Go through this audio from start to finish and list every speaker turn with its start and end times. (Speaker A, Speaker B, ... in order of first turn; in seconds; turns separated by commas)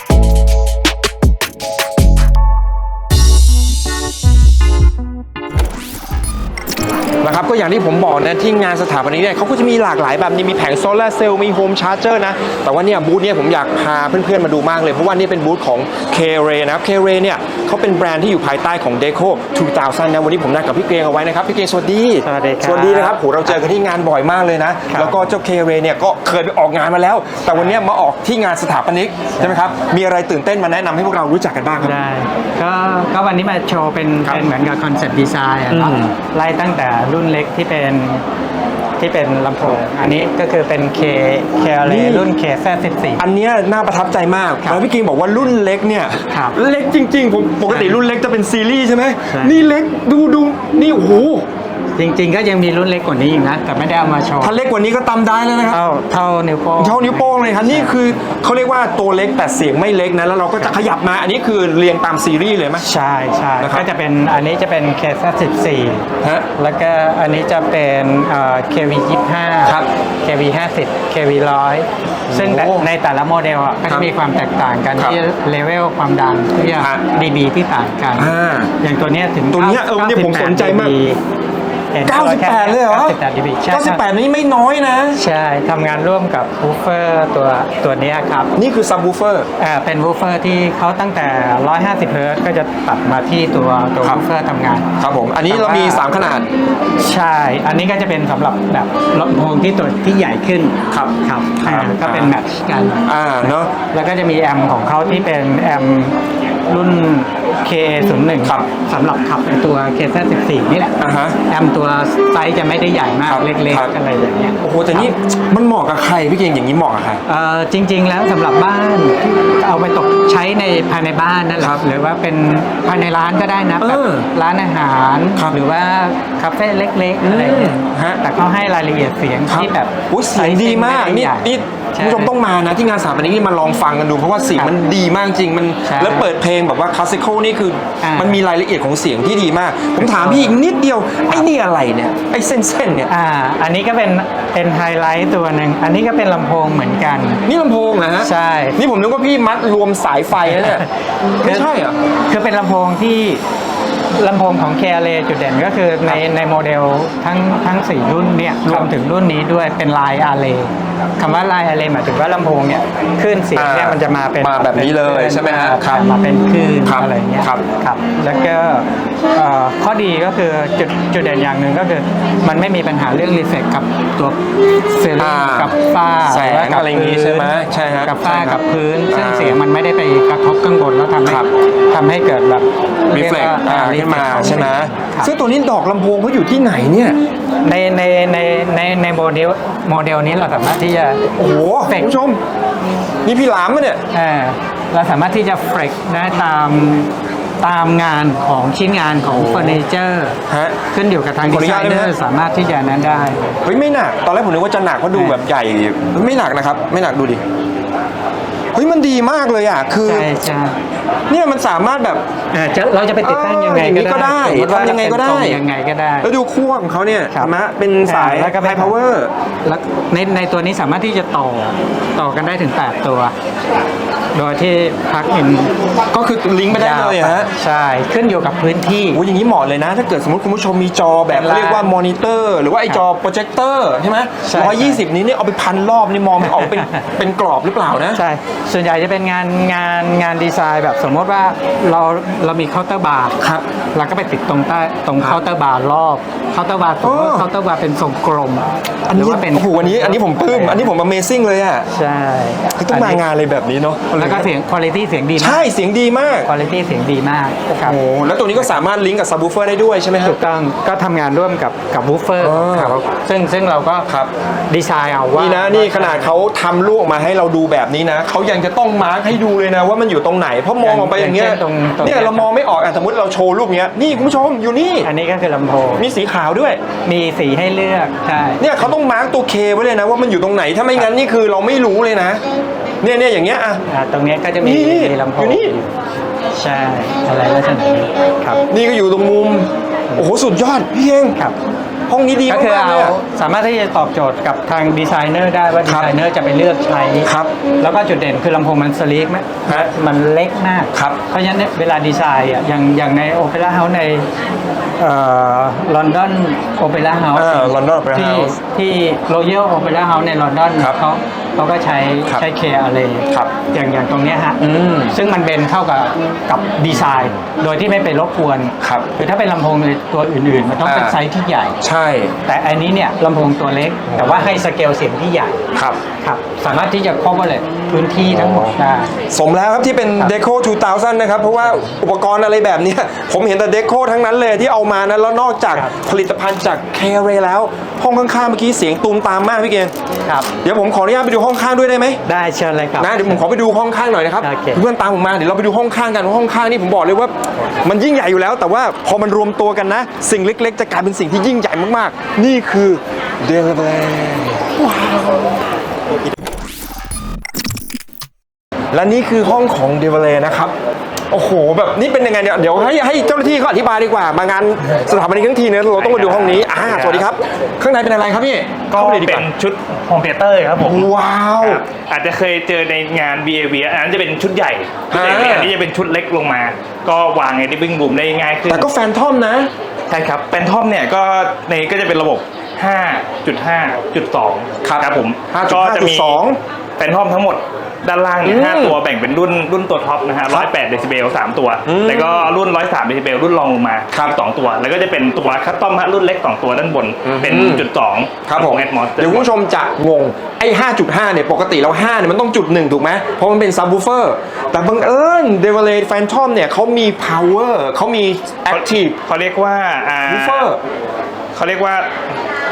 Speaker A: 7.2-31.9, Speaker B: 22.2-23.6, Speaker B: 24.9-25.2, Speaker B: 31.8-38.2, Speaker A: 35.7-36.1, Speaker B: 39.0-43.2, Speaker A: 41.9-42.3, Speaker A: 43.2-51.5, Speaker B: 47.7-48.0, Speaker B: 49.3-49.6, Speaker B: 52.0-54.5, Speaker A: 54.4-55.8, Speaker B: 55.7-58.0, Speaker A: 56.8-62.9, Speaker B: 62.8-81.2, Speaker A: 63.6-63.9, Speaker A: 72.3-72.9, Speaker A: 78.2-78.7, Speaker A: 79.5-80.9, Speaker B: 81.9-84.0, Speaker A: 82.1-83.2, Speaker A: 83.7-85.2, Speaker B: 85.2-88.5, Speaker A: 88.6-89.5, Speaker B: 89.6-94.9, Speaker A: 95.0-96.5, Speaker B: 95.5-96.1, Speaker B: 97.0-106.2, Speaker A: 100.9-102.3, Speaker A: 103.1-103.7, Speaker B: 106.7-111.0, Speaker A: 111.0-111.4, Speaker B: 111.5-115.1, Speaker A: 113.3-113.9, Speaker A: 114.6-117.2, Speaker B: 117.3-132.3, Speaker A: 123.8-124.3, Speaker A: 127.2-128.2, Speaker A: 129.5-143.1, Speaker B: 135.8-136.3, Speaker B: 138.0-138.4, Speaker B: 140.0-140.6, Speaker B: 143.1-147.4, Speaker A: 147.5-150.8, Speaker B: 148.2-148.8, Speaker B: 150.5-150.9, Speaker A: 151.4-152.0, Speaker B: 151.4-151.7, Speaker B: 152.3-153.4, Speaker B: 154.2-174.4, Speaker A: 163.6-166.0, Speaker A: 166.8-167.6, Speaker B: 174.9-185.3, Speaker A: 175.2-175.8, Speaker A: 176.3-179.6, Speaker A: 183.1-187.2, Speaker B: 187.6-191.3, Speaker A: 191.4-192.4, Speaker B: 191.9-192.2, Speaker A: 193.2-194.0, Speaker B: 194.1-203.6, Speaker A: 199.3-199.8, Speaker A: 200.5-200.8, Speaker A: 201.5-202.1, Speaker A: 203.6-207.4, Speaker B: 205.2-205.4, Speaker A: 208.8-210.3, Speaker B: 210.1-210.8, Speaker A: 211.3-212.3, Speaker B: 212.5-216.3, Speaker A: 213.2-215.6, Speaker A: 216.2-219.3, Speaker B: 218.1-218.9, Speaker B: 219.6-223.3, Speaker B: 224.3-225.7, Speaker A: 226.1-227.5, Speaker B: 226.7-229.2, Speaker A: 229.1-238.2, Speaker B: 231.3-231.9, Speaker B: 234.4-235.0, Speaker B: 236.4-237.0, Speaker B: 238.2-243.4, Speaker B: 243.9-250.9, Speaker A: 247.0-247.5, Speaker A: 249.1-251.9, Speaker B: 251.9-253.2, Speaker A: 252.8-254.5, Speaker B: 254.1-255.7, Speaker A: 255.4-256.5, Speaker B: 256.4-258.0, Speaker A: 257.8-260.4, Speaker B: 260.2-264.1, Speaker A: 262.4-263.0, Speaker B: 264.7-266.3, Speaker A: 265.4-275.1, Speaker B: 270.8-272.5, Speaker B: 275.0-276.1, Speaker A: 276.0-276.8, Speaker B: 277.0-278.9, Speaker A: 278.6-282.4, Speaker A: 283.0-283.8, Speaker B: 283.9-285.9, Speaker A: 284.6-285.7, Speaker B: 286.5-288.6, Speaker A: 288.7-291.4, Speaker A: 292.1-293.1, Speaker B: 292.5-304.3, Speaker A: 295.9-296.1, Speaker A: 297.3-297.5, Speaker B: 305.0-321.8, Speaker A: 307.4-308.6, Speaker A: 314.6-315.2, Speaker A: 318.8-319.1, Speaker A: 320.9-321.2, Speaker A: 321.8-322.3, Speaker B: 322.4-325.6, Speaker A: 324.1-324.6, Speaker B: 326.1-329.1, Speaker A: 328.3-328.8, Speaker A: 329.3-339.9, Speaker B: 340.2-340.5, Speaker A: 340.6-342.2, Speaker B: 342.3-343.4, Speaker A: 343.0-355.4, Speaker B: 344.4-344.8, Speaker A: 358.9-360.8, Speaker A: 361.3-369.5, Speaker C: 366.0-367.2, Speaker C: 368.9-378.9, Speaker A: 370.8-371.8, Speaker A: 375.1-375.7, Speaker A: 378.7-379.7, Speaker C: 380.1-386.4, Speaker A: 384.8-386.6, Speaker C: 387.0-399.5, Speaker A: 388.4-389.0, Speaker A: 391.9-392.5, Speaker A: 394.1-394.4, Speaker A: 397.2-397.9, Speaker A: 398.5-409.2, Speaker C: 408.7-410.7, Speaker A: 410.3-410.8, Speaker C: 411.5-412.1